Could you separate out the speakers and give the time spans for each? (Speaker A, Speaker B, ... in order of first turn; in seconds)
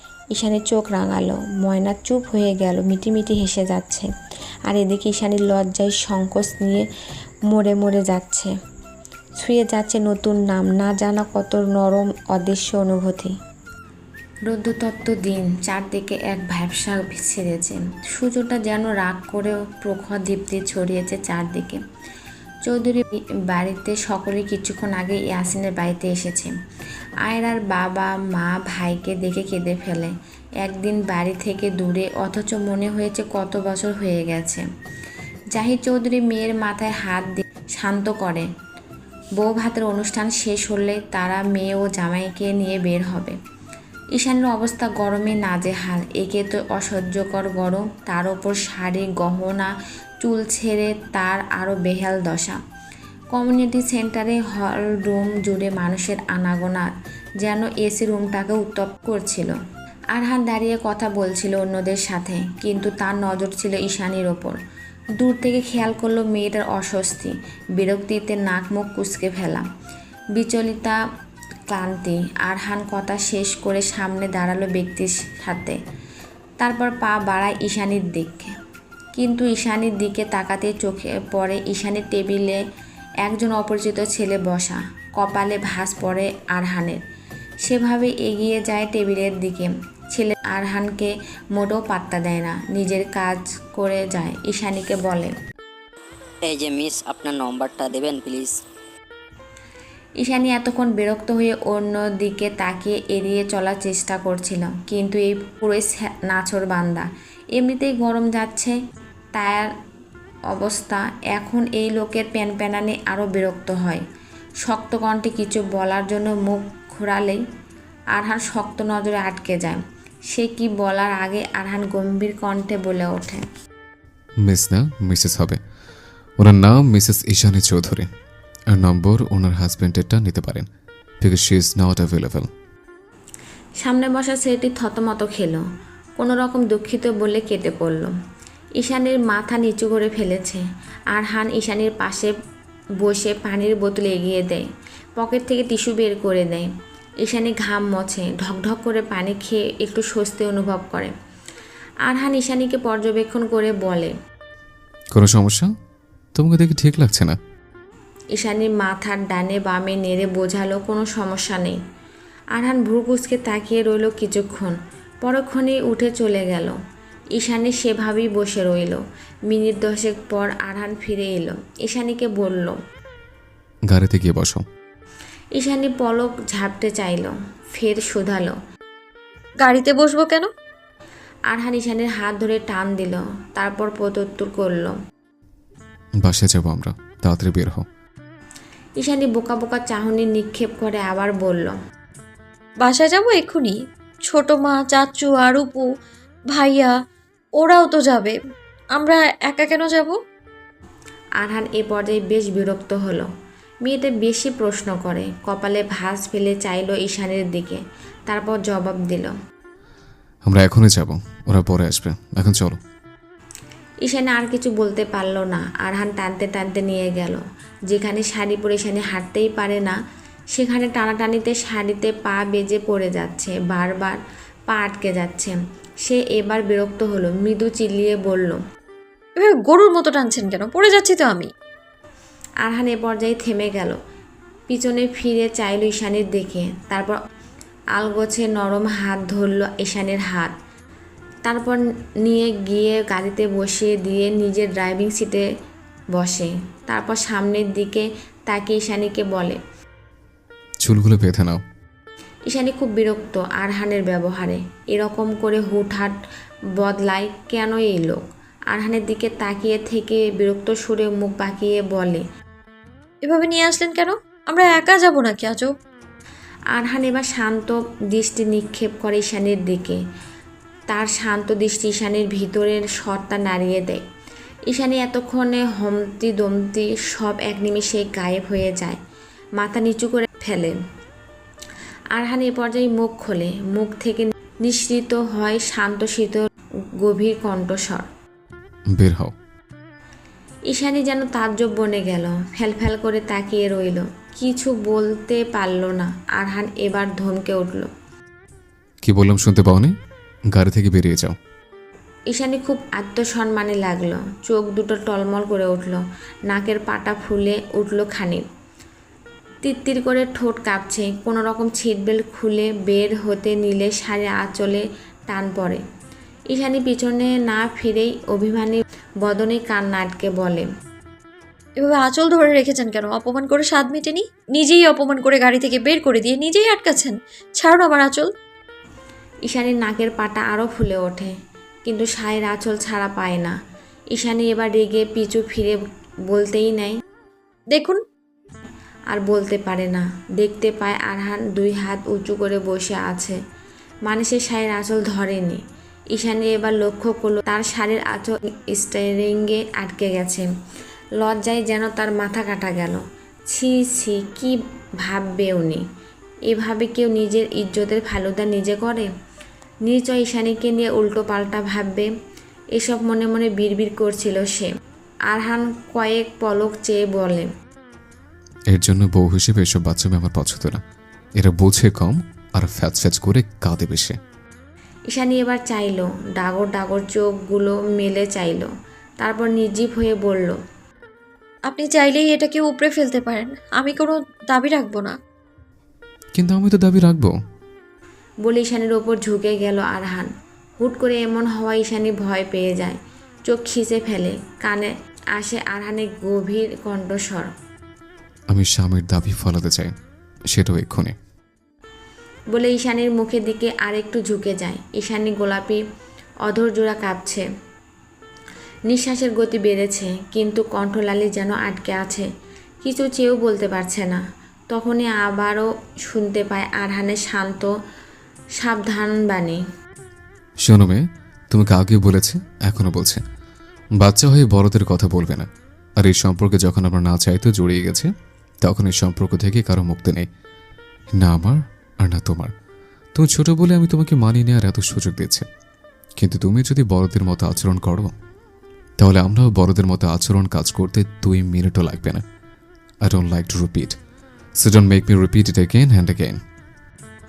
Speaker A: 0.3-4.1, 4.7-6.8, 7.5-8.5, 9.4-13.3, 14.5-21.8, 22.6-26.5, 27.2-34.6, 35.5-38.5, 39.4-43.4, 44.1-52.6, 53.3-59.5, 60.1-64.6, 65.2-69.7, 70.3-71.0, 71.7-75.8, 76.6-78.5, 79.2-82.6, 83.2-87.0, 87.6-95.3, 100.2-108.8, 109.3-109.7, 110.5-114.0, 114.6-117.4, 118.1-119.8, 120.3-123.4, 133.8-135.6, 136.2-138.1, 138.8-140.6, 141.1-142.3, 143.0-144.6, 145.2-146.7, 147.2-151.1, 152.1-154.1, 158.3-161.8, 162.5-166.7, 167.3-172.8, 175.6-178.5, 181.5-184.9, 189.0-191.7, 201.4-203.3, 203.8-209.3, 214.0-220.0, 220.5-224.2, 224.7-228.6, 232.6-234.0, 234.7-237.2, 237.9-240.5, 241.4-245.4, 246.1-249.6, 252.5-256.1, 256.8-262.2, 266.7-270.0, 270.9-274.0, 274.7-279.0, 279.6-280.8, 282.1-286.4, 287.0-288.1, 290.7-297.9, 302.3-308.4, 309.6-315.8, 316.5-320.7, 329.4-331.3, 331.9-333.6, 334.1-337.0, 339.1-343.4, 344.1-345.6, 346.1-350.5, 351.2-355.8, 356.5-359.1, 359.8-362.1, 362.8-364.7, 365.3-367.5, 375.1-378.7, 379.2-380.6, 388.4-393.0, 393.5-397.5, 402.5-405.8, 406.4-407.4, 408.9-412.3, 412.8-417.7, 418.6-419.6
Speaker B: 96.4-98.6
Speaker C: 124.5-125.6, 126.4-128.1, 128.7-130.7, 131.2-132.5, 155.1-155.7, 156.3-157.4, 173.9-174.6, 186.2-187.8, 210.4-212.8, 250.8-251.6, 288.9-289.3, 299.0-299.9, 300.5-301.4, 368.7-370.8, 371.4-374.2, 386.3-387.3, 398.5-399.9, 400.5-401.1, 420.6-423.2, 424.0-425.5, 426.0-428.1, 428.6-430.2, 431.1-432.5, 433.1-435.4, 436.2-438.1, 439.0-442.2, 443.0-443.9, 444.6-446.4
Speaker D: 179.6-180.5, 192.8-193.7, 194.3-195.8, 196.5-196.9, 197.6-198.3, 199.0-200.2, 229.4-231.5, 263.2-265.7, 321.8-328.3, 337.7-338.0, 381.7-385.1